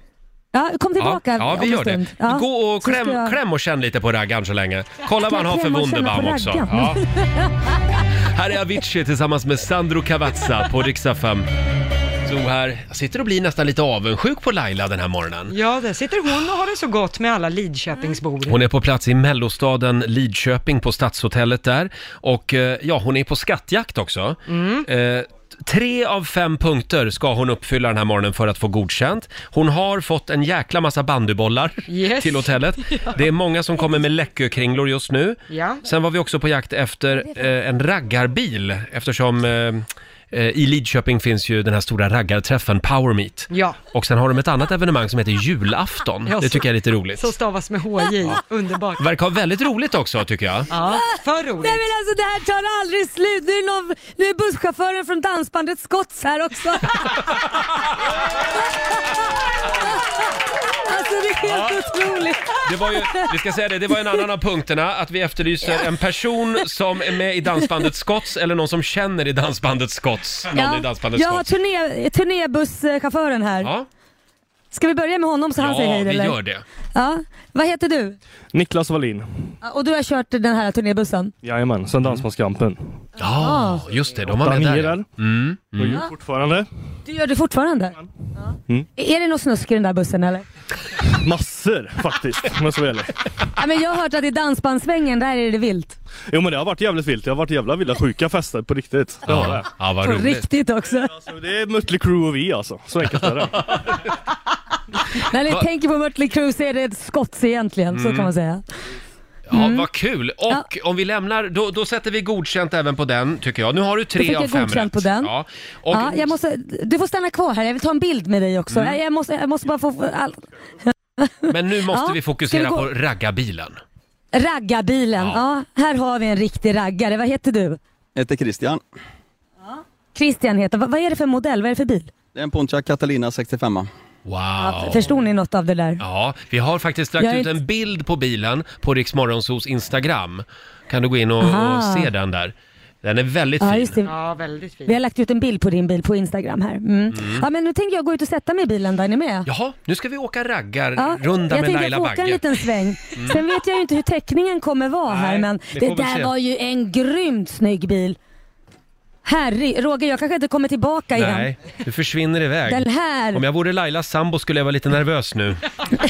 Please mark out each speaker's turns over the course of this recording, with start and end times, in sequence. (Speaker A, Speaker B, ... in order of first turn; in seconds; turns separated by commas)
Speaker A: 0.5-3.4, Speaker B: 1.0-7.0, Speaker A: 5.2-8.0, Speaker B: 8.2-11.5, Speaker B: 12.2-15.6, Speaker C: 15.5-18.6, Speaker B: 18.5-47.3, Speaker C: 24.5-24.9, Speaker C: 31.9-33.2, Speaker C: 35.5-35.8, Speaker C: 43.5-43.8, Speaker C: 46.2-49.0, Speaker B: 49.0-50.7, Speaker C: 50.7-51.8, Speaker A: 51.6-57.5, Speaker A: 60.8-63.2, Speaker B: 61.4-61.8, Speaker B: 62.6-71.5, Speaker A: 70.5-73.7, Speaker A: 74.7-76.4, Speaker B: 75.6-76.6, Speaker A: 76.9-78.2, Speaker D: 78.5-79.5, Speaker A: 79.6-81.3, Speaker D: 81.4-82.8, Speaker B: 83.2-86.0, Speaker A: 83.4-83.8, Speaker D: 84.2-85.1, Speaker D: 85.7-86.7, Speaker A: 87.0-88.0, Speaker A: 89.0-90.4, Speaker D: 91.2-93.2, Speaker A: 93.6-96.0, Speaker D: 96.3-99.7, Speaker B: 99.2-100.5, Speaker A: 100.0-101.1, Speaker D: 101.2-103.8, Speaker B: 103.6-103.9, Speaker A: 105.2-108.6, Speaker B: 107.9-108.3, Speaker B: 109.5-116.3, Speaker A: 109.5-109.9, Speaker A: 114.2-115.3, Speaker A: 115.9-122.8, Speaker B: 118.7-119.0, Speaker B: 121.5-123.8, Speaker A: 124.3-127.8, Speaker E: 128.2-128.8, Speaker A: 130.1-132.1, Speaker E: 132.3-133.9, Speaker B: 134.2-135.1, Speaker A: 134.6-136.0, Speaker B: 136.0-144.0, Speaker A: 137.2-137.5, Speaker A: 141.4-142.1, Speaker A: 143.6-144.1, Speaker C: 144.0-145.0, Speaker A: 144.8-149.5, Speaker B: 147.1-147.4, Speaker B: 149.5-152.4, Speaker A: 150.9-158.2, Speaker B: 153.1-153.4, Speaker B: 155.1-156.3, Speaker A: 159.2-161.5, Speaker B: 161.1-165.7, Speaker A: 162.7-163.4